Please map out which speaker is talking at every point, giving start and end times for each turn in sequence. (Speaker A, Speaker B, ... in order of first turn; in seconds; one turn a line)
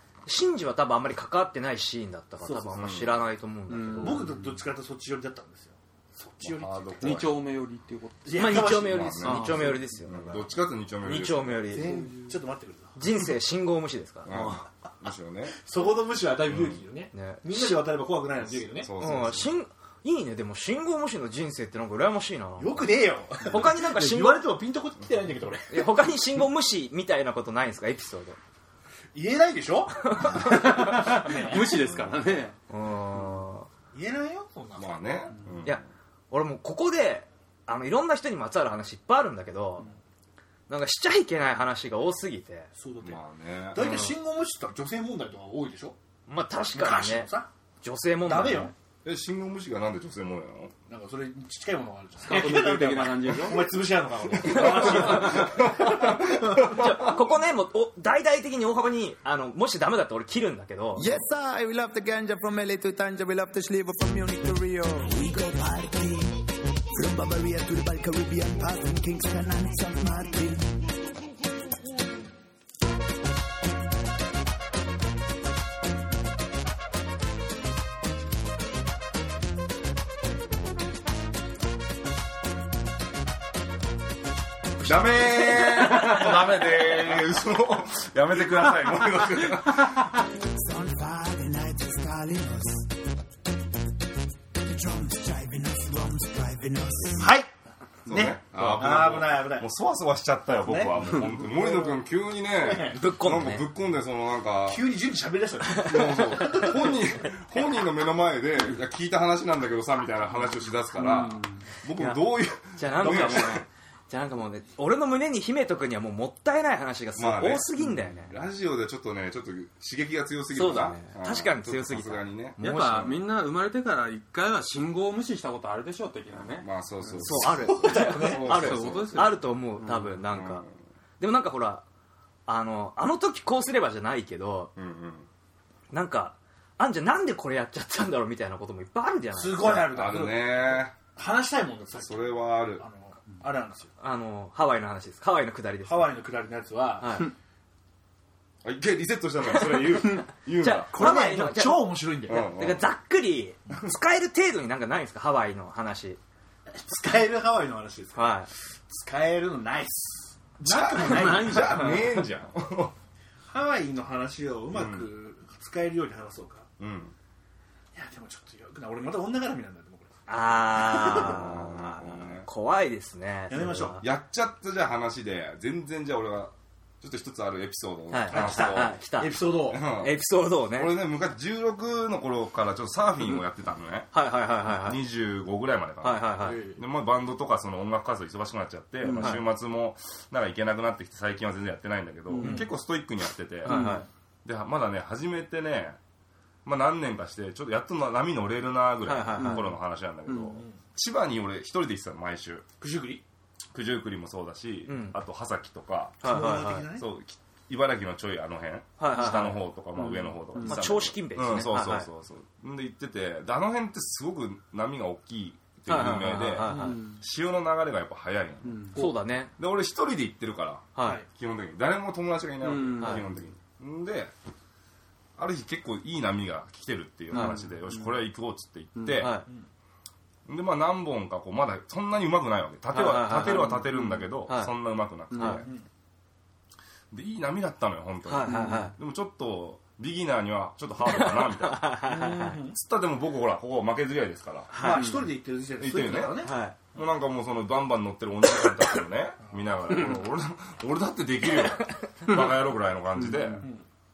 Speaker A: 0.2-4.3
Speaker B: 2.4-2.8
Speaker C: 2.7-3.1
Speaker D: 3.7-4.6
Speaker B: 4.0-7.2
Speaker C: 6.4-7.3
Speaker D: 7.0-8.5
Speaker B: 8.2-9.4
Speaker A: 8.3-10.5
Speaker C: 8.6-11.8
Speaker D: 9.2-9.8
Speaker A: 11.0-12.1
Speaker B: 11.7-13.0
Speaker A: 12.9-14.3
Speaker C: 14.2-15.6
Speaker B: 15.6-18.9
Speaker C: 16.5-16.8
Speaker A: 17.1-17.8
Speaker C: 18.4-19.6
Speaker A: 19.0-24.5
Speaker B: 22.6-25.9
Speaker A: 25.7-28.4
Speaker B: 29.1-31.9
Speaker A: 30.1-31.1
Speaker D: 30.2-32.5
Speaker A: 32.7-33.7
Speaker B: 33.9-34.9
Speaker C: 34.8-35.8
Speaker A: 35.6-39.9
Speaker A: 40.7-42.7
Speaker B: 42.7-43.2
Speaker C: 43.0-44.0
Speaker B: 43.7-46.0
Speaker A: 43.8-44.1
Speaker A: 46.3-48.7
Speaker B: 46.7-47.5
Speaker B: 48.2-48.7
Speaker C: 49.0-50.7
Speaker B: 50.9-56.8
Speaker D: 52.2-53.8
Speaker C: 54.3-57.2
Speaker A: 54.4-61.1
Speaker E: 61.0-66.4
Speaker E: 66.9-70.7
Speaker C: 84.8-90.1
Speaker E: 90.4-92.9
Speaker E: 94.6-97.3
Speaker B: 97.2-97.5
Speaker B: 98.0-99.7
Speaker C: 98.0-104.9
Speaker B: 100.7-103.0
Speaker A: 102.9-103.7
Speaker B: 104.7-106.9
Speaker C: 105.8-113.6
Speaker A: 105.8-106.7
Speaker D: 111.0-111.7
Speaker A: 111.9-118.4
Speaker C: 117.2-122.6
Speaker A: 120.5-123.2
Speaker D: 122.6-127.2
Speaker C: 126.4-129.3
Speaker A: 127.2-130.6
Speaker B: 127.5-128.6
Speaker D: 128.4-130.1
Speaker C: 130.3-130.7
Speaker A: 131.2-131.8
Speaker A: 132.5-134.7
Speaker C: 134.8-135.3
Speaker A: 135.9-139.9
Speaker B: 139.3-143.9
Speaker C: 139.6-140.9
Speaker C: 142.0-142.8
Speaker A: 144.0-146.2
Speaker B: 145.8-147.3
Speaker A: 147.0-147.3
Speaker C: 148.6-150.9
Speaker A: 149.5-156.2
Speaker B: 150.9-152.5
Speaker C: 152.3-152.8
Speaker B: 156.7-161.9
Speaker A: 158.1-158.5
Speaker C: 160.6-162.9
Speaker D: 161.0-162.0
Speaker B: 163.5-166.7
Speaker C: 164.7-165.1
Speaker C: 166.8-167.1
Speaker B: 167.9-170.1
Speaker A: 170.3-174.0
Speaker B: 170.8-171.2
Speaker C: 170.9-172.5
Speaker B: 173.5-174.0
Speaker C: 174.0-178.9
Speaker A: 178.1-180.9
Speaker B: 178.3-179.8
Speaker C: 179.7-180.2
Speaker C: 180.7-184.1
Speaker A: 184.1-185.0
Speaker C: 184.7-196.0
Speaker A: 186.0-186.6
Speaker B: 186.4-186.8
Speaker D: 189.0-189.4
Speaker A: 189.1-189.4
Speaker D: 192.3-192.7
Speaker A: 193.6-194.1
Speaker D: 193.6-194.0
Speaker C: 196.6-202.6
Speaker A: 199.1-199.7
Speaker D: 199.4-199.7
Speaker D: 200.3-200.6
Speaker B: 202.8-203.2
Speaker C: 203.7-206.4
Speaker A: 204.9-205.2
Speaker A: 206.2-206.9
Speaker B: 206.2-207.1
Speaker C: 206.9-219.0
Speaker A: 209.0-209.6
Speaker D: 210.0-210.8
Speaker A: 210.6-212.1
Speaker A: 215.9-217.0
Speaker B: 216.7-217.0
Speaker D: 216.7-217.2
Speaker D: 218.6-219.0
Speaker A: 218.9-219.5
Speaker C: 219.6-224.3
Speaker A: 220.9-221.2
Speaker D: 222.6-223.3
Speaker C: 225.4-229.3
Speaker A: 227.3-227.6
Speaker D: 227.3-228.1
Speaker D: 229.0-229.3
Speaker A: 229.1-229.4
Speaker C: 230.4-235.7
Speaker A: 232.9-233.8
Speaker D: 233.3-234.2
Speaker A: 234.5-234.7
Speaker D: 235.3-235.6
Speaker A: 235.4-235.6
Speaker C: 237.1-242.0
Speaker A: 238.3-238.9
Speaker D: 238.4-238.9
Speaker A: 241.1-242.6
Speaker B: 242.0-242.8
Speaker C: 242.7-244.7
Speaker A: 244.7-245.1
Speaker B: 244.7-246.6
Speaker D: 244.9-245.2
Speaker C: 245.8-253.7
Speaker A: 246.4-246.8
Speaker D: 253.2-253.7